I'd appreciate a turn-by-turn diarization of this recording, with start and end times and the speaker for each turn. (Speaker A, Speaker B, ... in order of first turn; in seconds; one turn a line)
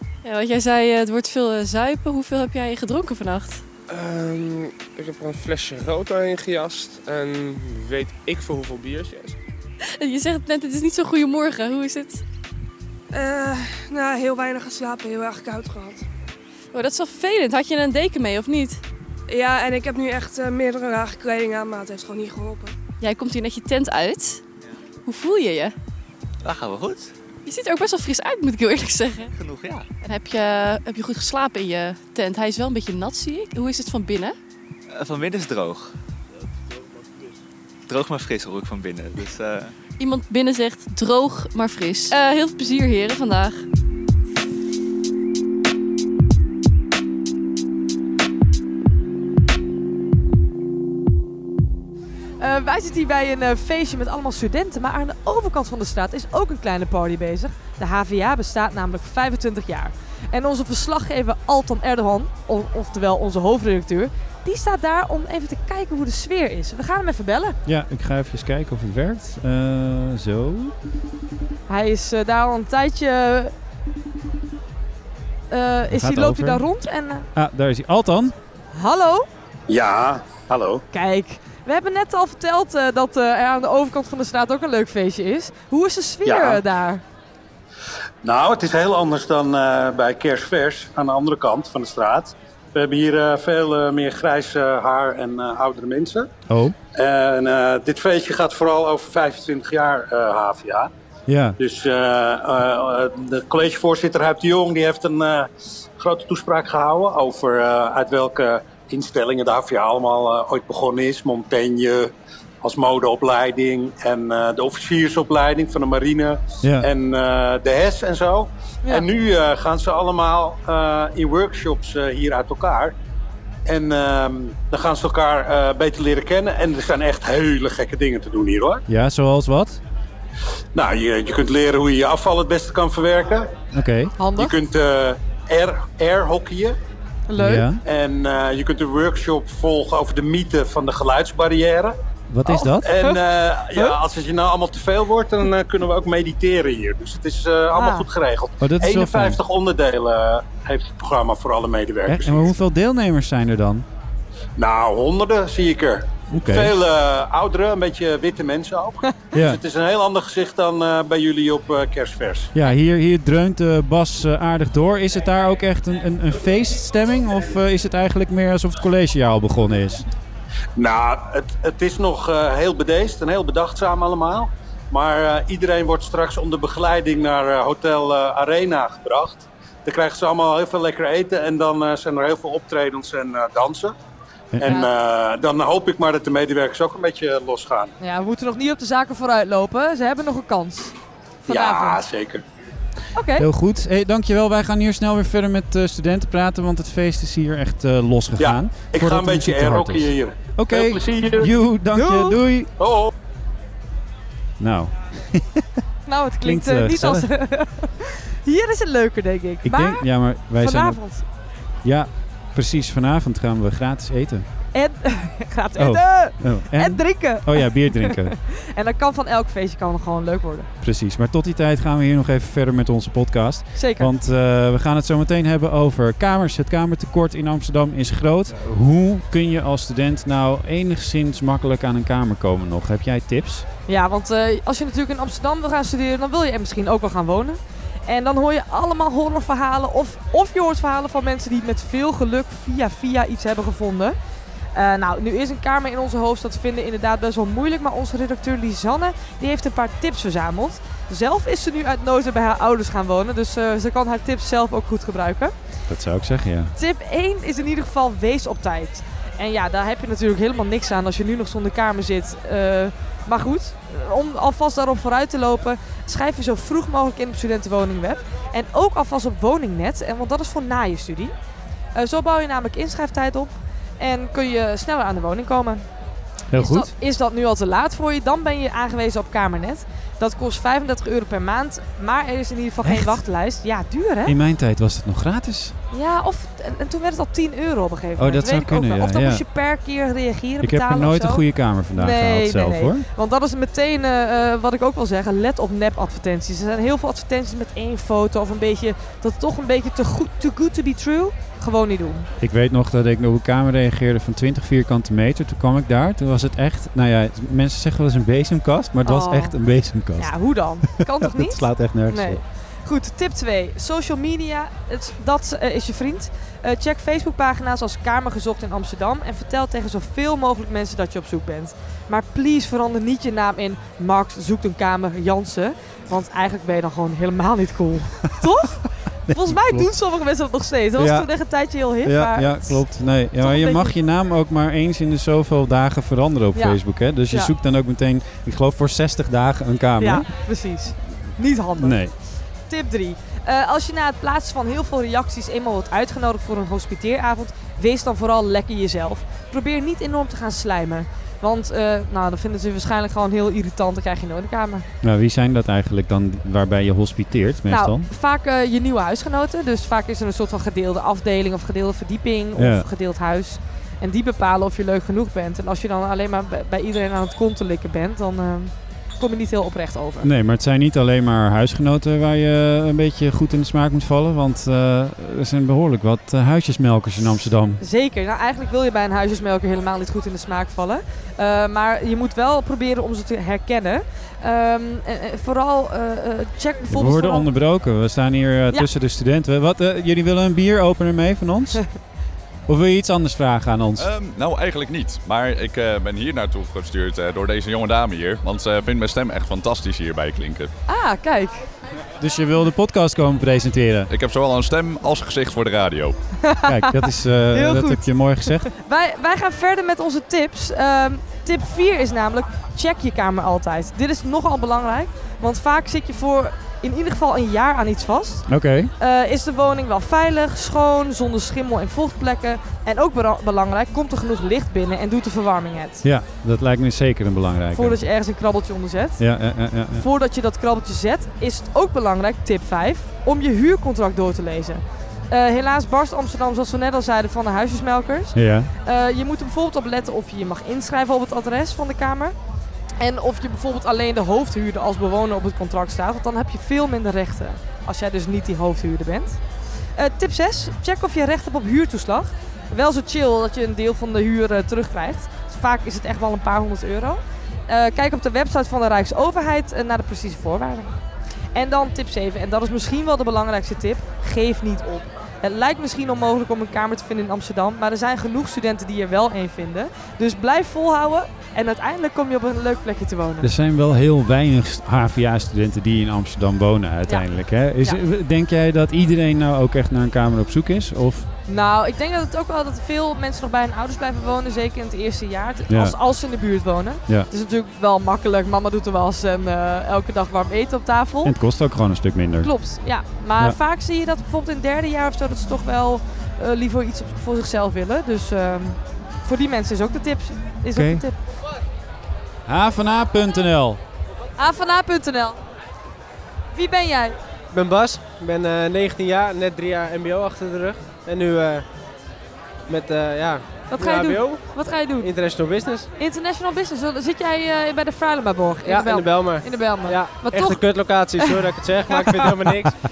Speaker A: 0.2-3.6
Speaker B: 3.9-9.4
Speaker A: 10.0-12.2
Speaker C: 13.1-16.1
Speaker A: 16.7-18.8
Speaker C: 19.3-22.8
Speaker A: 23.0-24.4
Speaker A: 25.1-25.7
Speaker D: 26.4-27.1
Speaker A: 27.5-29.3
Speaker D: 29.3-29.9
Speaker A: 30.0-34.4
Speaker D: 34.9-35.9
Speaker D: 37.9-39.8
Speaker A: 40.0-43.6
Speaker E: 52.4-67.6
Speaker F: 67.7-70.8
Speaker E: 71.7-73.5
Speaker E: 75.5-77.3
Speaker F: 75.9-76.6
Speaker F: 77.3-78.3
Speaker E: 78.7-79.3
Speaker G: 79.7-80.8
Speaker E: 80.9-87.0
Speaker G: 86.2-86.6
Speaker G: 88.2-96.3
Speaker F: 96.5-96.8
Speaker G: 97.0-100.9
Speaker F: 101.3-101.6
Speaker G: 101.6-123.0
Speaker G: 123.7-128.8
Speaker F: 128.9-129.8
Speaker G: 130.8-133.5
Speaker F: 133.7-134.1
Speaker E: 134.2-134.5
Speaker G: 134.4-136.8
Speaker E: 137.3-137.7
Speaker F: 137.4-137.8
Speaker G: 137.8-142.0
Speaker F: 142.3-142.9
Speaker E: 142.5-143.2
Speaker G: 142.8-152.5
Speaker E: 147.7-148.1
Speaker F: 148.6-149.4
Speaker F: 152.1-153.9
Speaker G: 154.6-162.5
Speaker F: 156.3-156.8
Speaker F: 159.3-159.6
Speaker F: 162.6-170.0
Speaker G: 170.8-183.9
Speaker F: 184.5-184.8
Speaker G: 184.6-187.9
Speaker E: 188.0-190.9
Speaker E: 191.5-192.0
Speaker G: 191.5-192.4
Speaker E: 193.1-193.5
Speaker F: 193.4-202.7
Speaker G: 198.4-201.5
Speaker E: 201.9-202.4
Speaker G: 202.8-203.1
Speaker F: 204.6-205.7
Speaker E: 206.1-210.1
Speaker F: 206.4-207.3
Speaker F: 209.6-211.0
Speaker E: 210.6-211.2
Speaker F: 211.8-214.5
Speaker E: 214.7-220.7
Speaker F: 215.8-218.3
Speaker F: 220.8-233.7
Speaker E: 223.8-224.1
Speaker E: 233.9-244.2
Speaker E: 244.8-255.5
Speaker F: 255.9-256.7
Speaker E: 256.8-271.3
Speaker E: 271.9-275.9
Speaker F: 276.5-276.9
Speaker E: 276.5-284.4
Speaker F: 282.8-283.2
Speaker F: 284.2-285.8
Speaker E: 285.9-291.4
Speaker F: 288.2-289.4
Speaker F: 290.6-293.1
Speaker E: 291.9-302.3
Speaker F: 302.4-310.3
Speaker E: 309.1-309.6
Speaker E: 310.2-332.8
Speaker F: 311.2-312.4
Speaker F: 329.3-329.9
Speaker F: 331.0-331.3
Speaker F: 332.0-340.3
Speaker E: 333.4-333.9
Speaker E: 340.0-342.0
Speaker F: 341.8-342.1
Speaker E: 342.7-354.9
Speaker F: 355.0-358.1
Speaker E: 357.7-370.3
Speaker F: 362.6-362.9
Speaker F: 370.2-377.8
Speaker E: 377.8-387.5
Speaker F: 386.9-391.8
Speaker F: 392.7-394.1
Speaker H: 394.0-400.7
Speaker E: 400.9-401.6
Speaker F: 402.2-404.1
Speaker H: 404.1-406.2
Speaker E: 406.5-426.1
Speaker F: 406.6-408.7
Speaker F: 418.5-418.9
Speaker F: 426.0-428.0
Speaker E: 427.7-429.2
Speaker F: 429.2-430.0
Speaker E: 429.9-442.4
Speaker F: 438.3-438.7
Speaker E: 443.0-449.4
Speaker E: 450.0-461.0
Speaker E: 461.6-473.5
Speaker F: 473.4-481.3
Speaker E: 481.5-491.4
Speaker F: 485.7-486.0
Speaker F: 491.2-492.5
Speaker E: 492.4-501.2
Speaker F: 500.7-501.1
Speaker F: 502.5-503.8
Speaker E: 504.4-505.4
Speaker E: 506.5-507.2
Speaker I: 507.5-511.6
Speaker I: 512.7-515.9
Speaker E: 513.7-515.1
Speaker E: 516.0-522.4
Speaker I: 518.6-522.8